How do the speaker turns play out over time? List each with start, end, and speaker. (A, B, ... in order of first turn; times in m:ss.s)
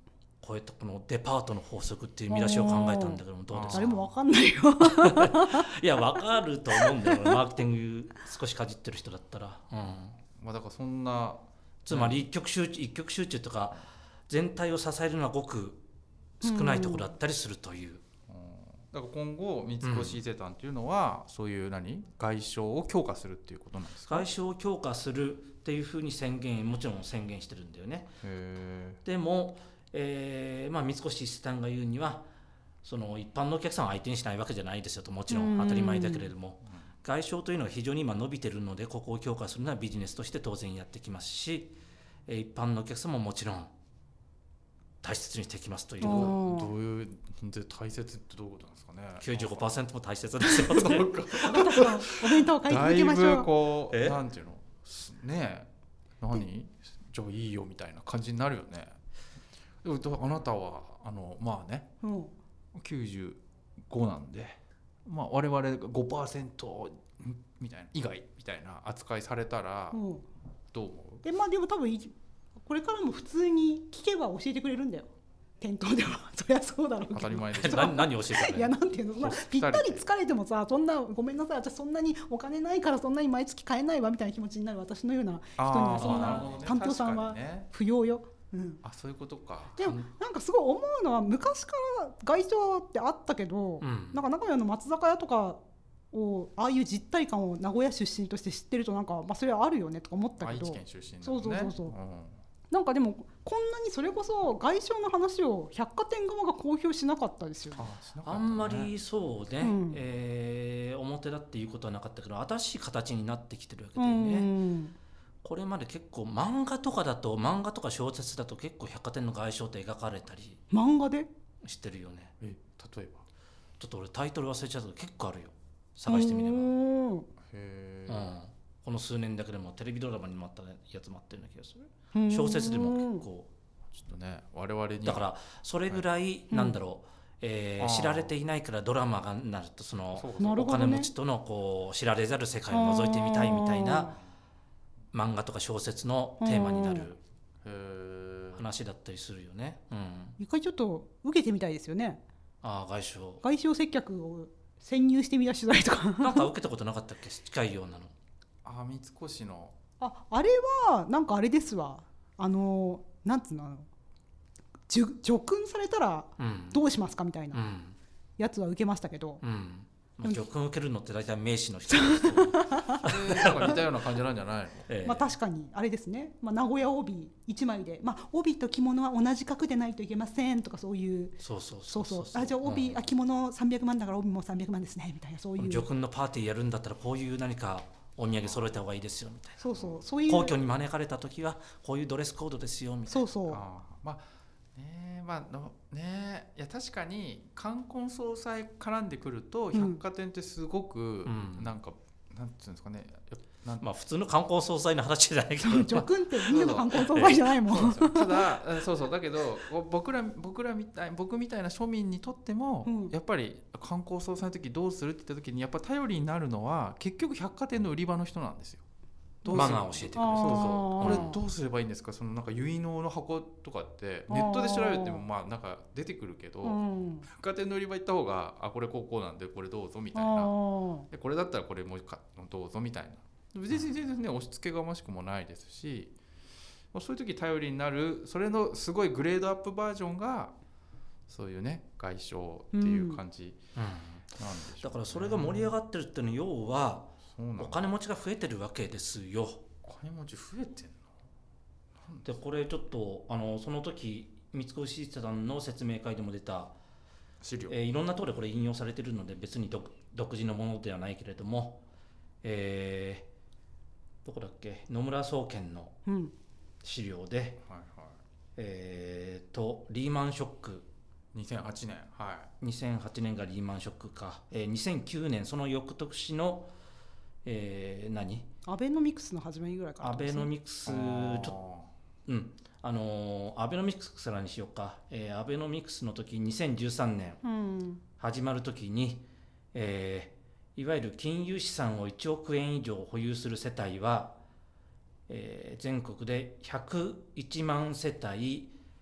0:00.4-0:04.1 A
0:02.3-0:05.7 B
0:03.5-0:03.9 C
0:04.8-0:10.2 A
0:06.8-0:07.4 B
0:10.3-0:12.2 C
0:11.8-0:15.8 A
0:16.4-0:18.0 A
0:16.4-0:17.1 B
0:18.3-0:24.3 C
0:19.8-0:20.2 A
0:24.1-0:28.1 A
0:28.2-0:29.0 C
0:29.0-0:32.3 A
0:32.8-0:41.8 A
0:35.3-0:36.3 B
0:42.3-0:43.7 A
0:45.0-0:46.4 A
0:46.0-0:46.7 B
0:46.0-0:49.7 C
0:49.2-0:51.4 A
0:50.4-0:59.0 C
0:51.4-0:53.5 B
0:53.9-0:54.2 A
0:59.8-1:01.9 C
1:02.0-1:02.3 B
1:02.7-1:10.0 C
1:09.9-1:10.2 B
1:10.7-1:11.2 C
1:11.2-1:15.1 B
1:15.6-1:28.8 B
1:17.1-1:20.0 C
1:17.6-1:18.7 A
1:25.6-1:27.7 C
1:26.0-1:26.5 A
1:28.8-1:30.1 C
1:29.8-1:41.9 B
1:33.8-1:34.2 A
1:40.4-1:42.4 C
1:42.7-1:47.9 B
1:47.7-1:48.9 C
1:48.2-1:54.5 A
1:49.6-1:50.0 B
1:54.0-1:54.9 B
1:55.4-2:00.6 A
2:00.7-2:01.3 B
2:01.6-2:02.3 A
2:02.4-2:03.2 C
2:03.8-2:06.7 A
2:06.0-2:07.3 B
2:07.4-2:08.3 C
2:08.1-2:13.5 A
2:12.1-2:13.2 B
2:13.9-2:15.2 C
2:15.0-2:24.1 A
2:16.5-2:16.7 B
2:17.8-2:18.3 C
2:20.1-2:20.7 C
2:20.4-2:21.1 B
2:22.7-2:24.2 B
2:25.1-2:27.2 A
2:26.4-2:27.1 B
2:27.6-2:28.7 C
2:28.5-2:30.4 A
2:30.4-2:32.2 B
2:32.6-2:33.4 A
2:33.4-2:36.5 B
2:36.2-2:38.1 A
2:38.6-2:39.8 C
2:40.0-2:43.9 B
2:44.9-2:47.6 B
2:46.4-2:46.8 A
2:47.5-2:48.0 A
2:48.4-2:49.4 B
2:49.4-2:53.8 A
2:51.9-2:53.0 B
2:52.8-2:54.9 C
2:54.9-2:55.3 A
2:55.0-3:05.9 B
3:01.4-3:03.1 A
3:05.6-3:13.3 A
3:09.6-3:10.6 B
3:13.1-3:13.6 B
3:13.5-3:14.2 C
3:14.7-3:23.8 C
3:19.7-3:20.0 B
3:21.2-3:21.7 A
3:23.8-3:26.1 A
3:25.6-3:28.5 B
3:26.5-3:38.8 C
3:26.9-3:27.5 A
3:32.8-3:33.1 B
3:39.4-3:41.3 B
3:39.4-3:50.5 C
3:39.5-3:41.4 A
3:44.3-3:45.2 B
3:46.6-3:47.3 B
3:50.1-3:51.0 B
3:51.1-3:56.1 C
3:56.9-4:00.5 C
4:01.3-4:03.6 C
4:02.7-4:03.2 B
4:03.7-4:09.6 A
4:04.4-4:05.7 C
4:07.3-4:07.8 C
4:09.8-4:11.1 C
4:12.0-4:12.3 C
4:12.2-4:16.8 A
4:17.4-4:17.8 C
4:17.7-4:21.8 A
4:22.4-4:23.3 A
4:24.2-4:26.0 A
4:26.0-4:26.3 B
4:26.8-4:27.6 A
4:27.7-4:28.2 C
4:28.6-4:30.9 A
4:31.3-4:32.5 C
4:32.6-4:36.7 A
4:37.4-4:38.5 A
4:38.6-4:40.5 B
4:40.0-4:41.6 A
4:40.8-4:41.9 C
4:42.2-4:47.4 A
4:47.4-4:48.0 B
4:48.2-4:54.4 A
4:55.3-4:58.8 A